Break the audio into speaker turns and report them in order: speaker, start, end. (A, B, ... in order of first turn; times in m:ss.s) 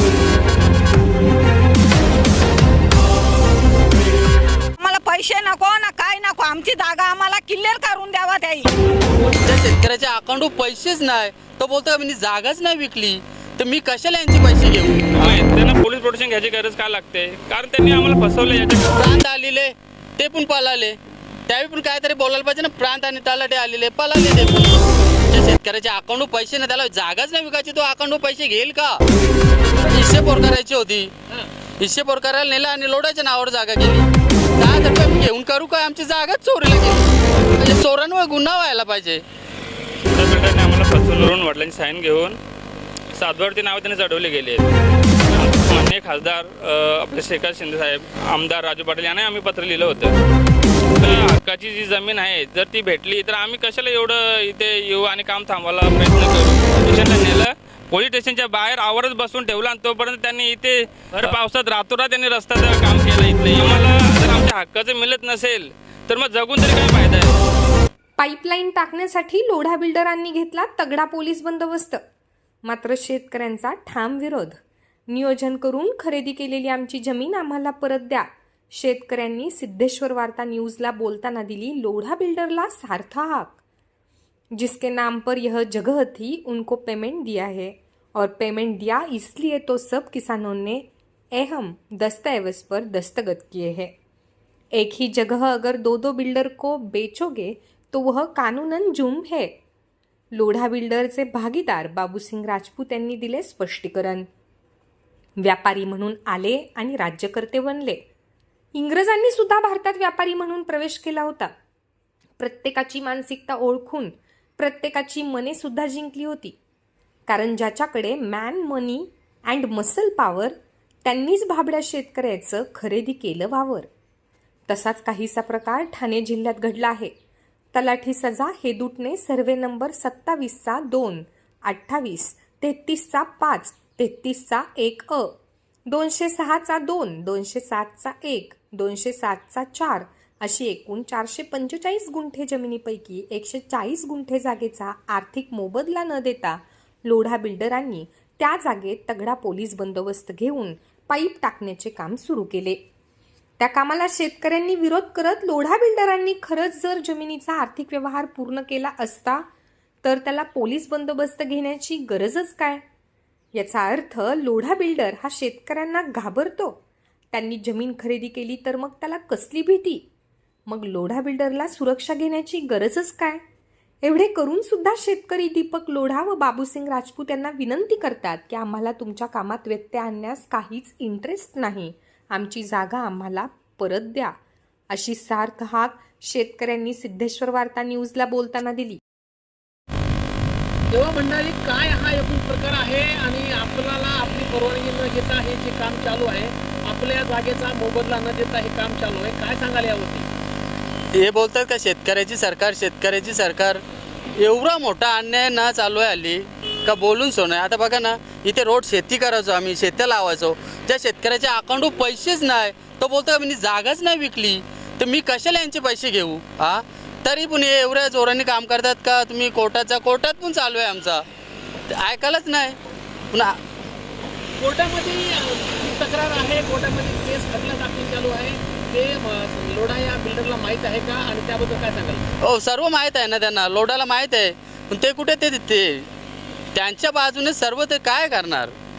0:04.8-0:08.7 A
0:09.4-0:15.4 B
0:15.2-0:19.0 C
0:18.9-0:21.0 B
0:21.5-0:24.8 B
0:25.3-0:29.0 B
0:29.8-0:31.1 B
0:31.8-0:39.2 B
0:40.1-0:42.4 C
0:43.1-0:44.7 C
0:45.3-0:50.2 C
0:51.0-1:07.4 C
1:08.2-1:12.0 D
1:12.6-1:23.6 D
1:24.6-1:33.9 D
1:34.7-1:39.5 D
1:40.3-1:44.3 D
1:45.4-1:48.0 D
1:48.7-1:51.5 D
1:52.4-1:56.6 D
1:57.3-2:03.9 D
2:04.7-2:07.1 D
2:07.7-2:15.3 D
2:15.9-2:32.8 D
2:33.6-2:39.4 D
2:40.0-2:42.8 D
2:43.5-2:46.8 D
2:47.3-2:50.0 D
2:50.7-2:53.4 D
2:54.0-3:04.4 D
3:04.9-3:09.0 D
3:10.9-3:20.2 E
3:21.1-3:23.8 B
3:24.4-3:41.2 B
3:41.9-3:42.8 B
3:43.3-3:43.6 B
3:44.6-3:52.2 E
3:52.4-3:56.1 B
3:56.7-3:58.7 B